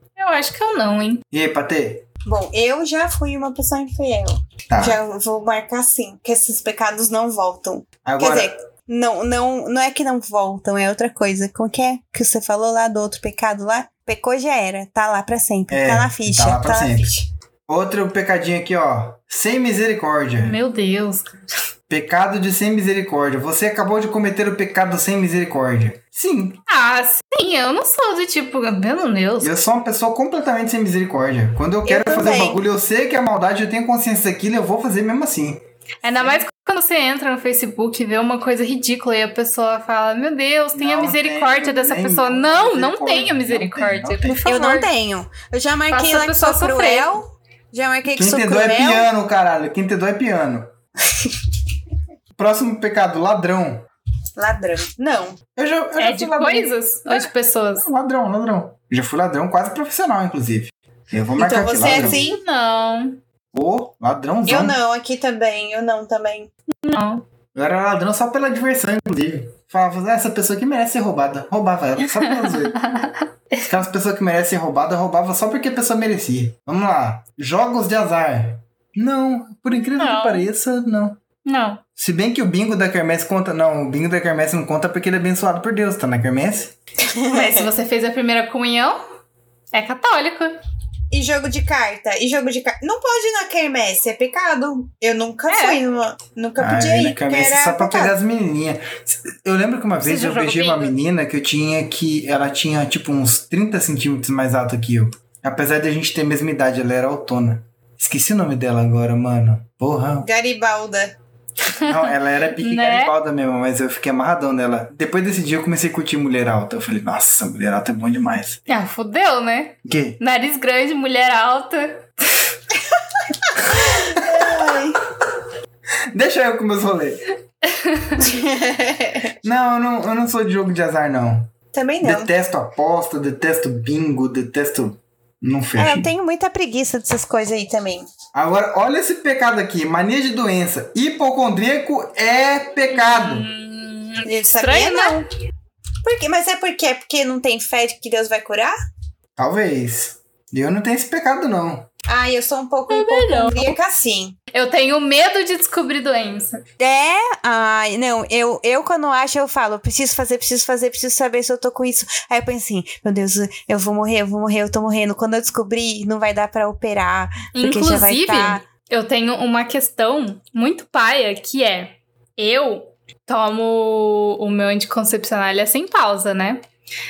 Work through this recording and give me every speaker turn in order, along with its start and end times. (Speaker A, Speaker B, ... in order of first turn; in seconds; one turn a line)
Speaker A: 0.2-1.2
Speaker B: 1.3-2.0
Speaker C: 2.2-17.3
Speaker B: 4.7-5.0
Speaker B: 8.0-8.5
Speaker B: 15.7-17.1
Speaker B: 17.7-20.6
Speaker A: 20.4-21.4
Speaker B: 21.9-26.6
Speaker A: 26.7-29.5
Speaker B: 29.4-36.4
Speaker C: 31.9-32.6
Speaker A: 36.0-44.9
Speaker B: 40.7-44.4
Speaker C: 44.4-49.1
Speaker A: 45.9-47.1
Speaker B: 48.1-50.7
Speaker B: 52.4-53.9
Speaker C: 54.4-55.4
Speaker B: 55.5-62.2
Speaker A: 56.0-57.9
Speaker C: 61.4-62.4
Speaker A: 61.9-63.2
Speaker B: 63.5-64.8
Speaker C: 64.5-66.5
Speaker A: 66.8-67.2
Speaker B: 67.5-72.8
Speaker A: 72.0-73.6
Speaker B: 73.7-81.2
Speaker A: 79.8-80.5
Speaker A: 81.5-81.8
Speaker B: 82.0-86.7
Speaker C: 87.0-87.7
Speaker A: 87.3-89.0
Speaker A: 89.7-90.6
Speaker C: 91.1-98.1
Speaker A: 95.5-95.8
Speaker B: 96.6-110.3
Speaker A: 100.0-100.9
Speaker C: 110.2-111.1
Speaker B: 111.8-118.7
Speaker A: 112.6-113.1
Speaker A: 118.7-122.0
Speaker B: 119.8-120.2
Speaker C: 123.7-125.0
Speaker B: 126.1-127.2
Speaker A: 127.7-128.3
Speaker C: 128.2-129.3
Speaker B: 129.4-136.1
Speaker C: 131.7-132.3
Speaker C: 135.8-138.1
Speaker B: 138.3-143.5
Speaker A: 142.9-145.2
Speaker C: 144.2-145.2
Speaker C: 146.0-148.7
Speaker B: 149.4-151.9
Speaker C: 152.1-154.4
Speaker A: 152.9-153.8
Speaker A: 154.5-156.6
Speaker C: 156.8-168.6
Speaker A: 167.5-176.6